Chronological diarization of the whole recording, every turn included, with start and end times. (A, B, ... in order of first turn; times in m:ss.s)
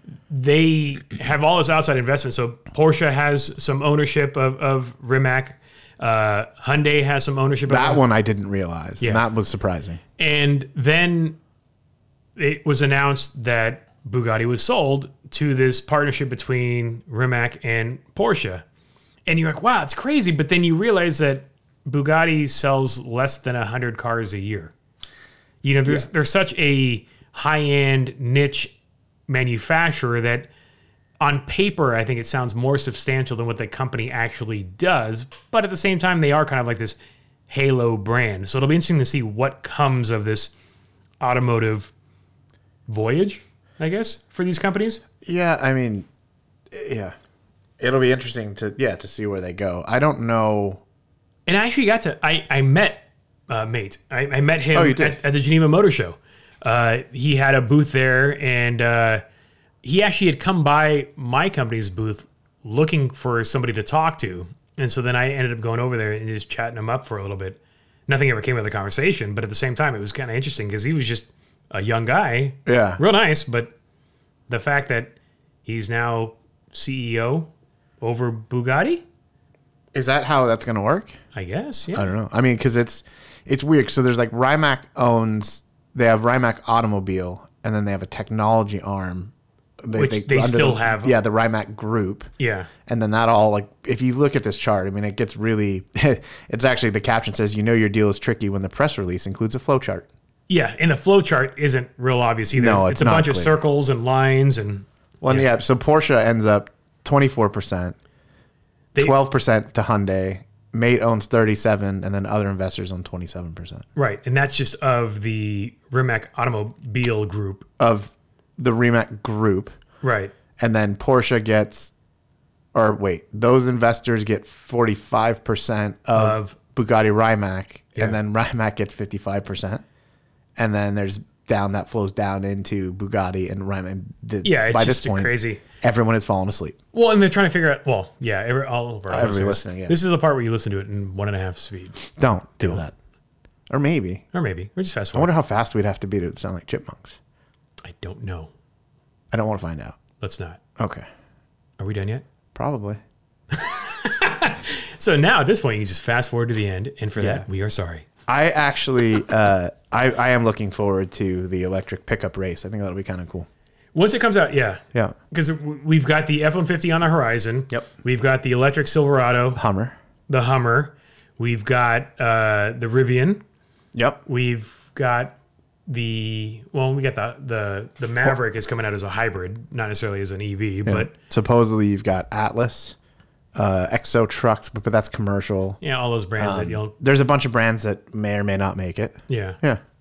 0:00.3-0:08.0 A
0:07.7-0:10.0 B
0:09.0-0:09.2 A
0:10.2-0:11.4 A
0:12.4-0:18.6 A
0:19.3-0:24.7 A
0:25.6-0:28.7 A
0:29.3-0:30.5 A
0:31.2-0:37.0 A
0:37.5-0:40.5 A
0:41.2-0:41.9 A
0:42.9-0:45.0 A
0:45.2-0:46.1 B
0:46.7-0:47.1 B
0:47.8-0:50.8 B
0:51.5-0:59.2 A
0:54.7-0:55.2 B
0:59.8-1:13.7 A
1:12.6-1:13.0 B
1:14.5-1:15.1 A
1:15.6-1:17.5 A
1:18.0-1:19.0 A
1:19.9-1:21.2 B
1:21.3-1:22.1 A
1:21.9-1:29.3 B
1:29.8-1:32.3 B
1:29.9-1:31.1 A
1:32.4-1:32.7 A
1:32.8-1:40.1 B
1:40.5-1:45.5 A
1:42.5-1:43.5 B
1:45.2-1:48.0 B
1:49.0-1:53.8 B
1:53.9-1:57.7 A
1:57.8-1:59.8 B
2:00.0-2:00.3 A
2:00.6-2:01.9 B
2:02.7-2:09.8 B
2:06.1-2:06.6 A
2:10.6-2:16.8 B
2:14.4-2:15.6 A
2:16.9-2:22.0 A
2:19.1-2:20.0 B
2:22.1-2:22.9 B
2:23.7-2:24.2 B
2:24.3-2:25.3 A
2:25.1-2:27.2 B
2:27.8-2:28.5 A
2:29.3-2:30.0 B
2:30.2-2:30.6 A
2:30.8-2:31.0 B
2:31.8-2:32.2 A
2:32.5-2:33.0 B
2:33.5-2:38.0 A
2:37.2-2:37.4 B
2:38.3-2:43.5 B
2:43.9-2:49.6 A
2:49.5-2:50.0 B
2:50.3-2:53.4 A
2:53.9-2:54.2 B
2:54.2-2:55.3 A
2:55.9-3:01.1 A
3:00.8-3:03.0 B
3:03.5-3:05.8 B
3:05.8-3:06.9 A
3:06.4-3:09.8 B
3:09.3-3:09.6 A